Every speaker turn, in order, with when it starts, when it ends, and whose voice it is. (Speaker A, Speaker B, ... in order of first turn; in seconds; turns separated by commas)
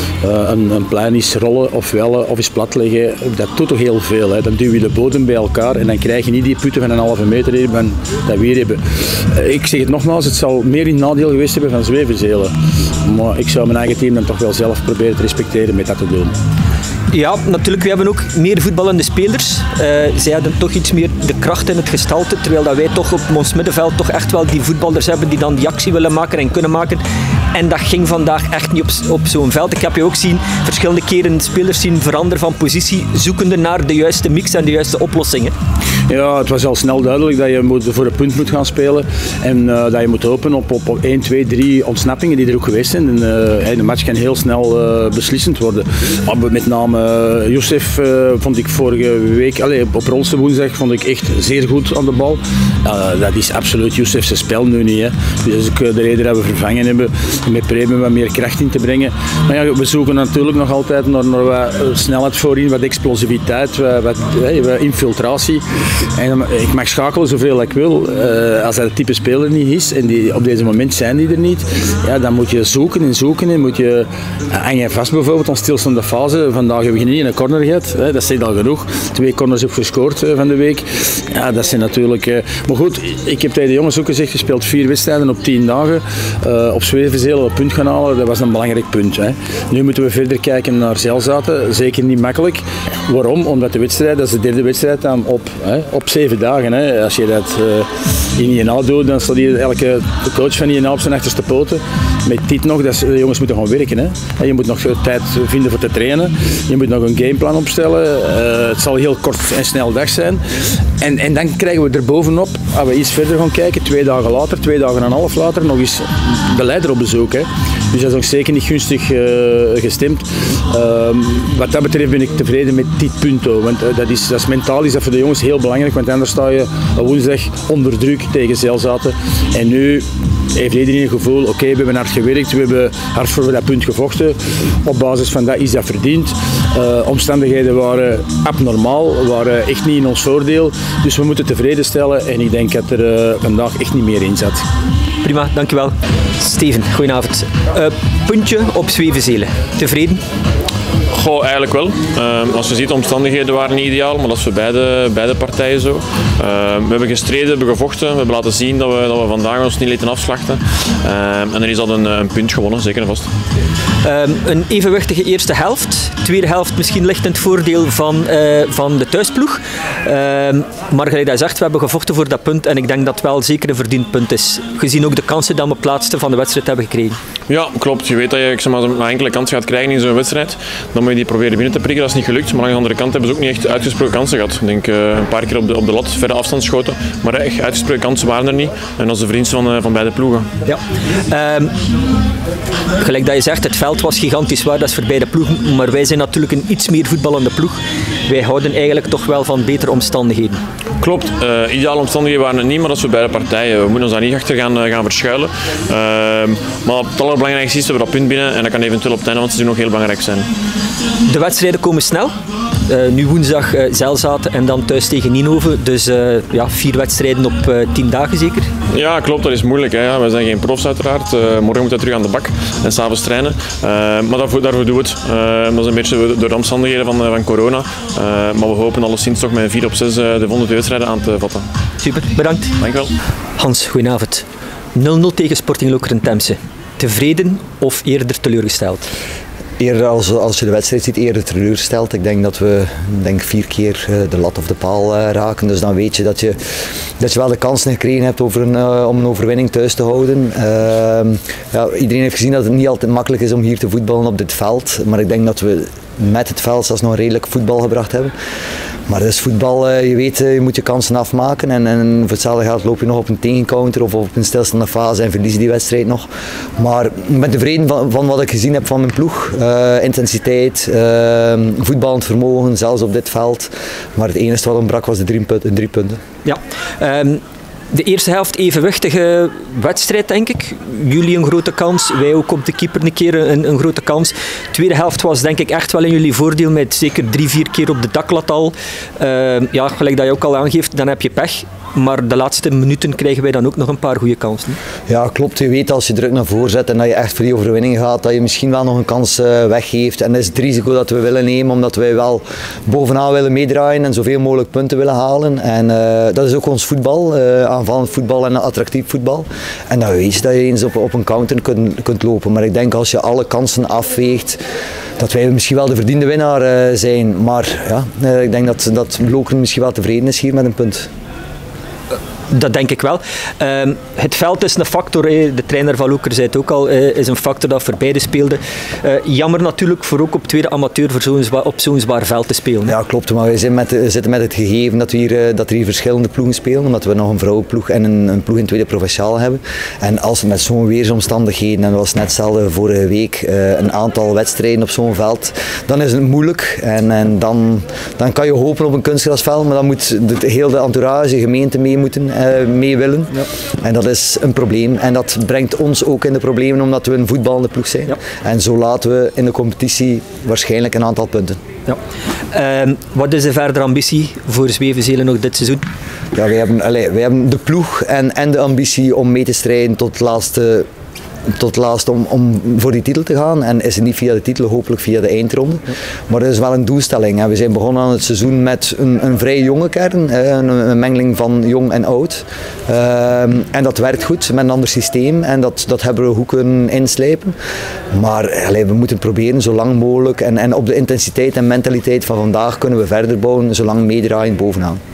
Speaker A: 0.2-8.8, Speaker A: 9.3-12.5, Speaker A: 13.0-16.3, Speaker B: 17.1-35.5, Speaker A: 36.1-65.6, Speaker A: 66.2-110.4, Speaker A: 111.0-130.0, Speaker A: 130.5-144.6, Speaker B: 145.2-150.2, Speaker C: 151.1-163.3, Speaker B: 164.0-177.2, Speaker C: 177.5-190.5, Speaker B: 190.7-191.7, Speaker B: 193.0-200.6, Speaker C: 201.0-210.5, Speaker B: 211.2-212.3, Speaker B: 212.9-218.7, Speaker C: 218.9-231.6, Speaker B: 232.0-232.7, Speaker C: 232.8-233.1, Speaker B: 233.6-239.1, Speaker D: 239.8-246.6, Speaker D: 247.2-258.3, Speaker D: 259.1-266.2, Speaker D: 266.8-276.2, Speaker B: 276.4-277.4, Speaker B: 277.9-294.8, Speaker D: 295.1-314.6, Speaker D: 315.2-321.1, Speaker B: 322.5-332.9, Speaker D: 332.9-361.6, Speaker B: 362.5-365.8, Speaker D: 366.3-370.9, Speaker D: 371.6-387.5, Speaker D: 388.1-395.0